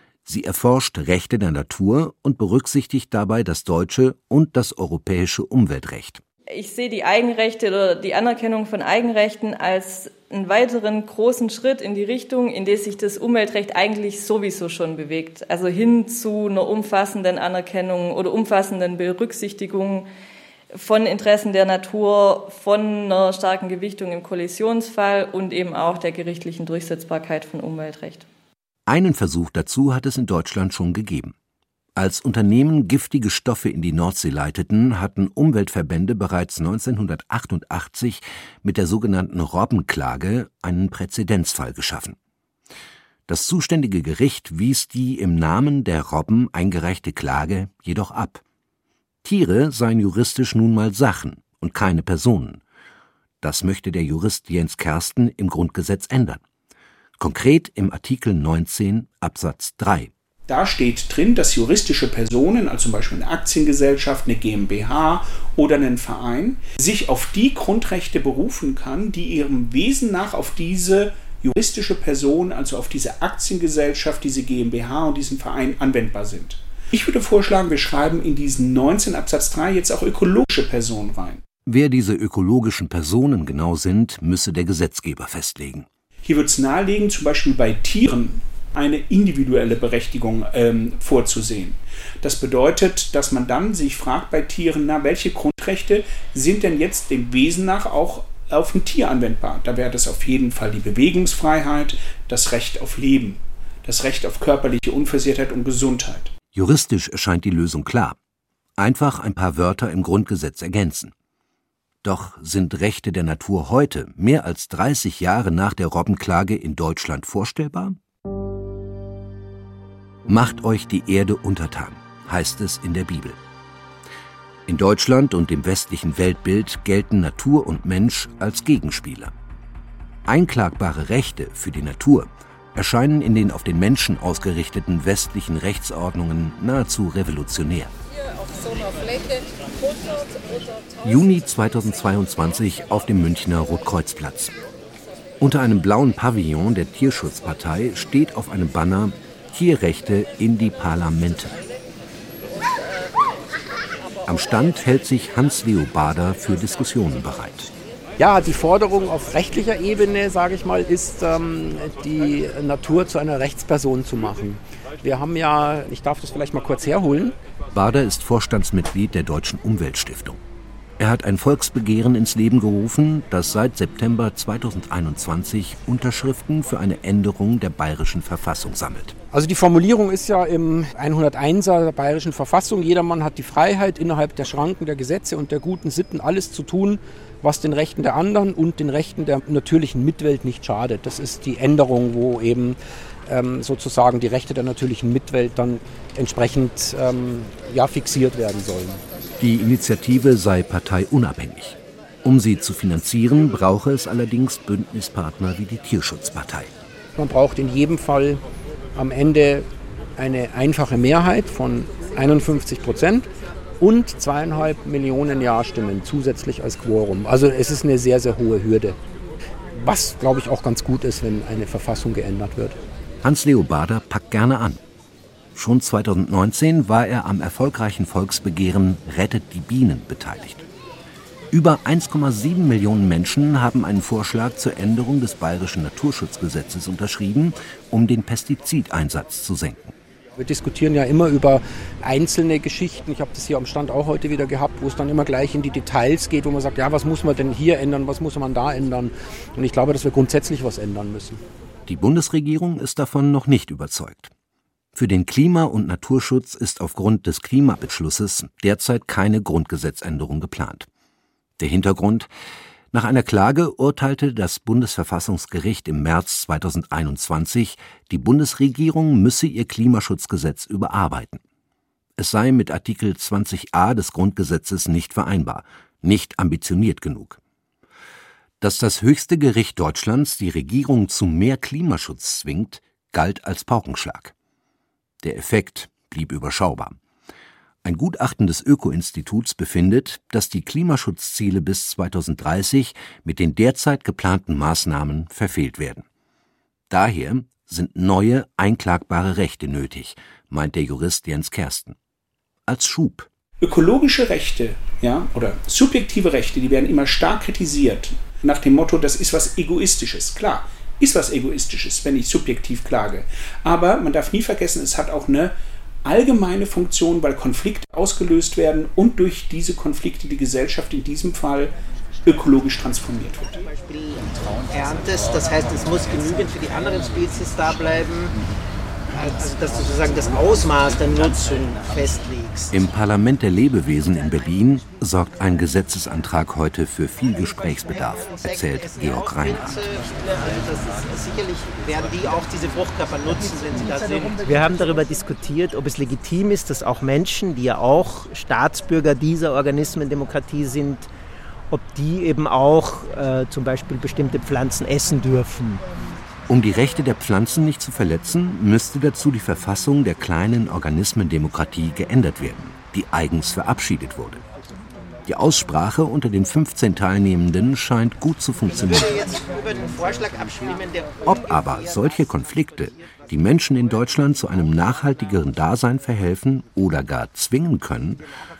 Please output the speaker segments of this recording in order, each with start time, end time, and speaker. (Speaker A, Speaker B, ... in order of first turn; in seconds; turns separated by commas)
Speaker A: 0.2-6.2, Speaker B: 6.5-20.1, Speaker B: 20.7-28.3, Speaker A: 28.9-31.3, Speaker A: 31.9-42.1, Speaker A: 43.3-48.4, Speaker A: 49.2-52.6, Speaker A: 53.4-56.4, Speaker A: 57.2-60.1, Speaker C: 60.5-81.4, Speaker A: 81.7-85.9, Speaker C: 86.2-106.3, Speaker A: 106.5-108.2, Speaker A: 108.8-111.1, Speaker A: 112.0-118.0, Speaker A: 120.3-123.4, Speaker A: 124.7-129.3, Speaker A: 130.2-137.9, Speaker A: 141.0-144.5, Speaker A: 145.4-151.6, Speaker A: 154.2-157.7, Speaker D: 158.2-167.3, Speaker A: 167.7-170.4, Speaker A: 171.0-179.2, Speaker D: 179.3-199.0, Speaker A: 199.4-206.7, Speaker D: 207.2-208.4, Speaker D: 208.9-213.3, Speaker D: 213.8-219.0, Speaker D: 219.7-222.8, Speaker A: 223.2-224.8, Speaker A: 225.5-230.7, Speaker A: 231.5-239.9, Speaker D: 240.3-251.4, Speaker A: 251.9-254.3, Speaker A: 254.9-260.9, Speaker A: 261.6-262.3, Speaker A: 262.9-271.4, Speaker A: 272.2-277.4, Speaker A: 278.6-284.3, Speaker A: 285.2-287.0, Speaker A: 287.8-296.1, Speaker A: 296.9-301.9, Speaker A: 302.7-303.3, Speaker C: 303.6-321.7, Speaker C: 322.2-323.6, Speaker E: 323.9-328.3, Speaker E: 329.1-332.7, Speaker A: 332.7-339.8, Speaker E: 340.2-351.1, Speaker E: 351.7-355.8, Speaker A: 356.5-364.4, Speaker A: 365.2-369.3, Speaker E: 369.8-371.0, Speaker A: 371.2-378.2